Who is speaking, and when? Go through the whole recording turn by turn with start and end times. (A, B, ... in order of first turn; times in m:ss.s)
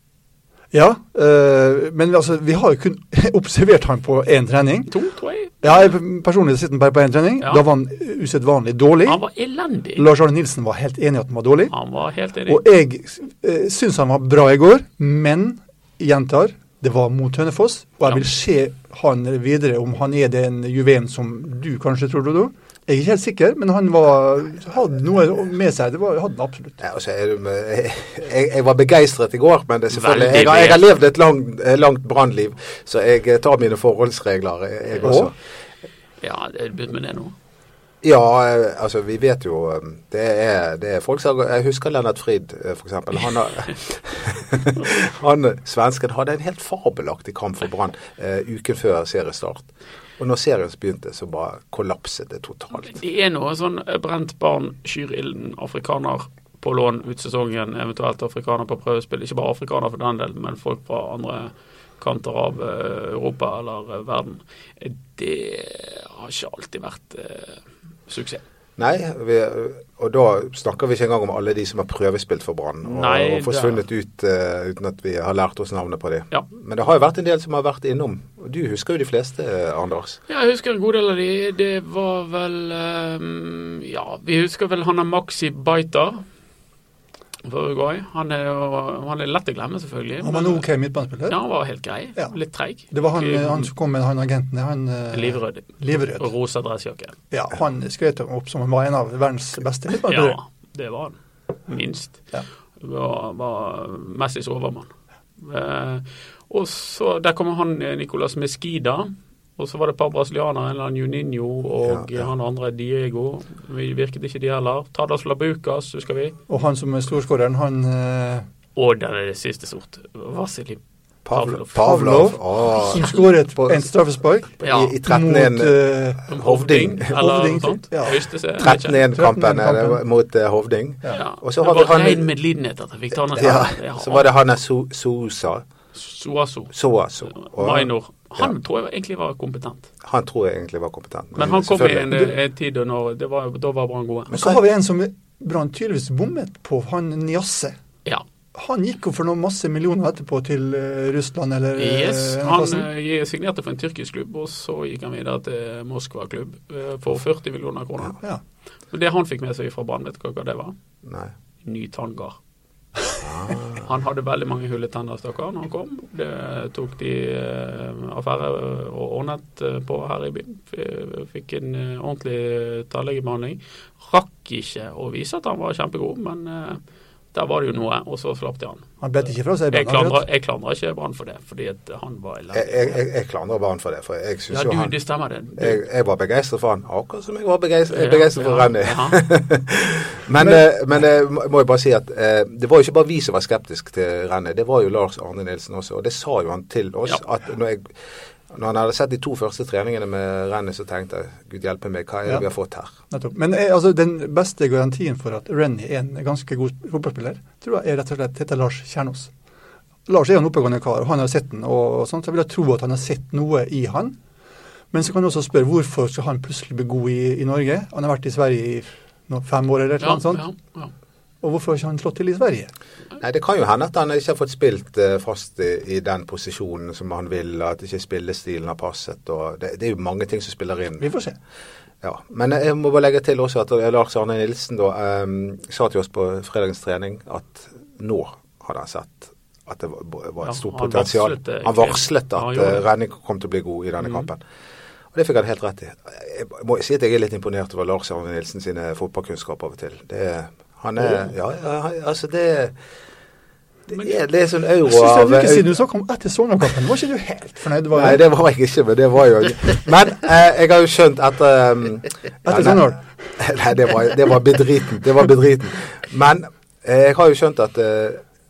0:00.7-0:04.9 A
0:04.9-0:05.9 B
0:05.6-0:09.2 A
0:07.4-0:07.6 B
0:09.0-0:10.1 B
0:10.0-0:11.8 A
0:11.7-0:12.6 B
0:12.5-0:26.8 A
0:26.8-0:35.3 C
0:29.9-0:30.8 B
0:35.0-0:35.3 A
0:36.2-0:37.3 B
0:38.0-0:53.0 C
0:52.7-1:08.4 B
1:08.8-1:20.2 C
1:12.8-1:13.8 B
1:20.3-1:26.2 B
1:27.4-1:30.6 B
1:30.2-1:31.4 A
1:31.3-1:33.7 B
1:32.9-1:36.3 A
1:35.1-1:37.2 B
1:37.3-1:40.4 A
1:40.0-1:42.2 B
1:42.8-1:56.4 B
1:51.8-1:52.2 C
1:56.5-1:58.4 A
1:58.8-2:00.8 B
2:01.2-2:03.0 C
2:01.3-2:01.9 B
2:01.8-2:06.2 A
2:02.9-2:03.2 B
2:04.6-2:05.0 B
2:04.6-2:07.2 C
2:06.3-2:08.9 B
2:07.1-2:10.0 A
2:08.6-2:12.3 C
2:11.1-2:14.2 B
2:13.3-2:15.6 C
2:15.9-2:16.7 B
2:16.7-2:18.5 C
2:17.4-2:19.9 B
2:20.0-2:22.1 C
2:21.4-2:24.4 B
2:24.3-2:24.6 C
2:24.3-2:27.8 A
2:28.5-2:32.9 A
2:31.8-2:38.2 B
2:38.9-2:40.7 B
2:41.0-2:41.3 C
2:41.6-2:42.4 B
2:43.2-2:43.9 C
2:43.7-2:56.8 B
2:57.3-2:58.9 B
2:59.0-3:00.2 A
2:59.7-3:03.0 B
3:02.5-3:04.9 C
3:04.5-3:05.8 B
3:05.6-3:17.9 C
3:07.9-3:09.2 B
3:18.5-3:22.9 C
3:23.1-3:29.3 A
3:30.1-3:34.2 A
3:34.9-3:40.4 A
3:40.0-3:40.9 B
3:41.4-3:42.7 A
3:43.2-3:51.1 C
3:51.0-3:51.4 A
3:52.0-4:04.4 C
4:00.4-4:02.8 B
4:04.0-4:04.3 B
4:05.1-4:12.8 C
4:13.9-4:14.1 B
4:13.9-4:15.7 C
4:14.8-4:18.2 A
4:17.9-4:22.8 C
4:22.4-4:23.0 A
4:23.4-4:28.2 C